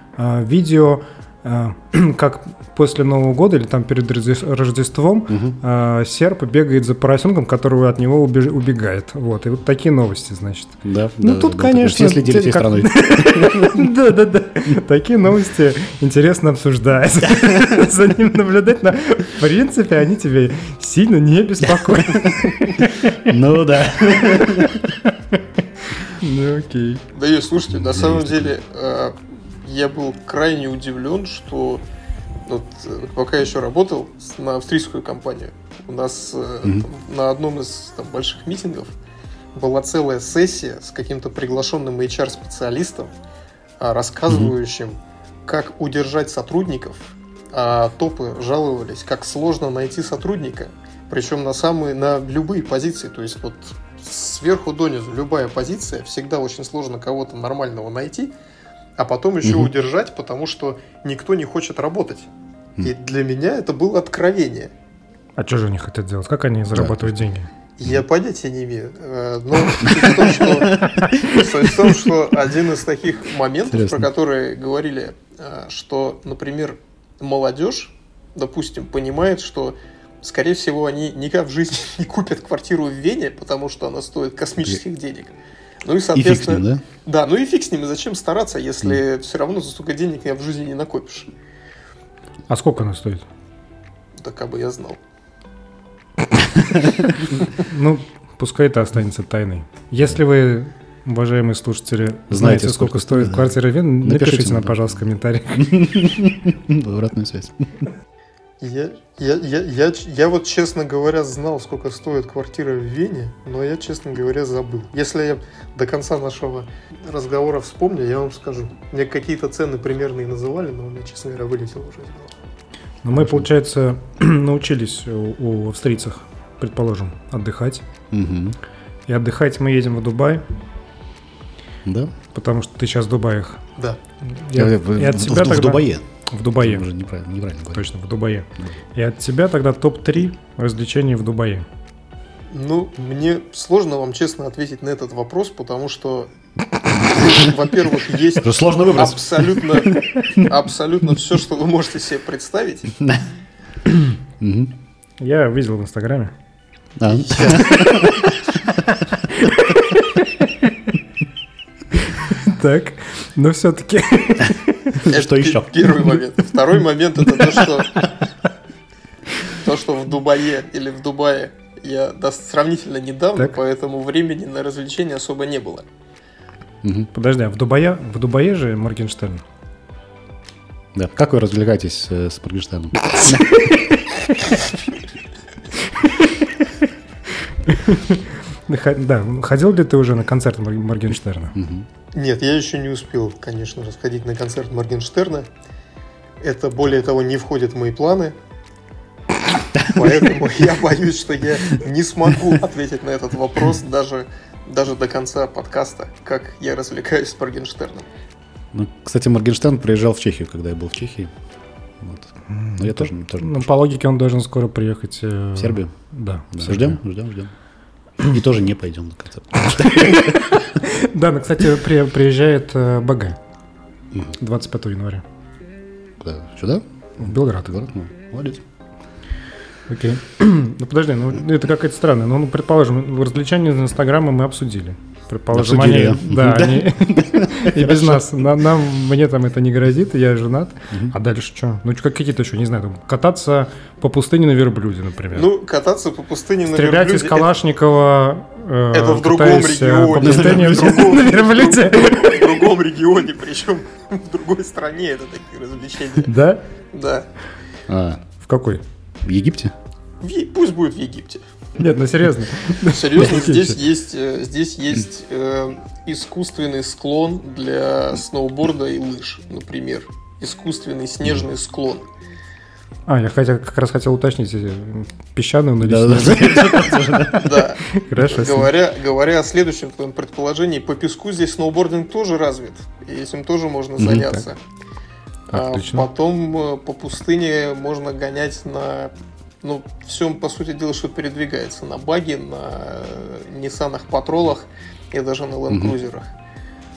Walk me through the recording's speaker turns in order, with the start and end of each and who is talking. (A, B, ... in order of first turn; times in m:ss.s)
0:00.2-0:22.9 A
0:05.3-0:05.6 B
0:10.8-0:13.8 B
0:21.7-0:25.0 B
0:26.0-0:27.0 A
0:27.1-0:31.8 C
0:27.8-0:28.5 B
0:32.4-0:38.9 C
0:39.5-0:43.1 C
0:43.8-0:58.3 C
0:59.0-1:02.3 C
0:59.4-0:59.7 B
1:02.8-1:04.7 C
1:05.4-1:07.5 A
1:06.7-1:07.1 B
1:07.8-1:31.3 C
1:09.8-1:11.4 B
1:13.7-1:14.1 B
1:26.1-1:26.8 B
1:32.5-1:33.2 A
1:34.2-1:35.0 C
1:37.4-1:46.0 A
1:42.3-1:44.9 B
1:45.6-1:47.7 B
1:48.6-2:02.3 C
2:03.0-2:07.8 A
2:03.2-2:03.4 B
2:08.1-2:08.6 B
2:09.1-2:10.4 A
2:11.8-2:12.1 B
2:12.3-2:13.6 A
2:14.2-2:16.9 A
2:14.5-2:16.0 B
2:16.6-2:17.8 B
2:17.7-2:21.6 A
2:22.5-2:26.3 C
2:26.9-2:32.9 C
2:28.4-2:30.4 B
2:32.9-2:33.2 B
2:34.4-2:34.7 B
2:35.2-2:36.3 A
2:37.0-2:38.8 B
2:37.1-2:38.3 C
2:42.2-2:45.0 A
2:45.0-2:46.1 B
2:45.1-2:48.1 C
2:49.5-2:55.9 C
2:56.8-2:57.1 B
2:57.1-2:59.4 A
3:00.9-3:03.7 B
3:07.6-3:11.5 A
3:11.5-3:11.8 B
3:12.1-3:15.5 C
3:16.4-3:18.3 C
3:19.7-3:20.0 B
3:19.9-3:28.1 C
3:28.7-3:31.3 B
3:32.0-3:33.7 B
3:32.5-3:37.0 A
3:35.6-3:35.9 B
3:36.5-3:37.5 B
3:38.2-3:40.3 B
3:39.8-3:43.4 A
3:44.4-3:45.2 A
3:46.2-3:48.6 B
3:47.2-3:47.7 A
3:49.9-4:05.5 A
3:55.5-3:58.3 B
4:05.3-4:07.5 C
4:06.7-4:12.6 A
4:08.9-4:16.3 C
4:10.2-4:11.1 B
4:16.2-4:16.6 A
4:16.9-4:17.3 C
4:17.9-4:18.2 B
4:18.4-4:18.8 A
4:19.2-4:19.7 B
4:20.2-4:21.4 C
4:21.8-4:23.8 A
4:22.9-4:32.1 C
4:33.1-4:37.3 A
4:35.8-4:37.6 B
4:37.3-4:44.6 C
4:37.8-4:38.7 A
4:44.0-4:44.2 B
4:45.5-4:56.3 C
4:45.5-4:46.0 A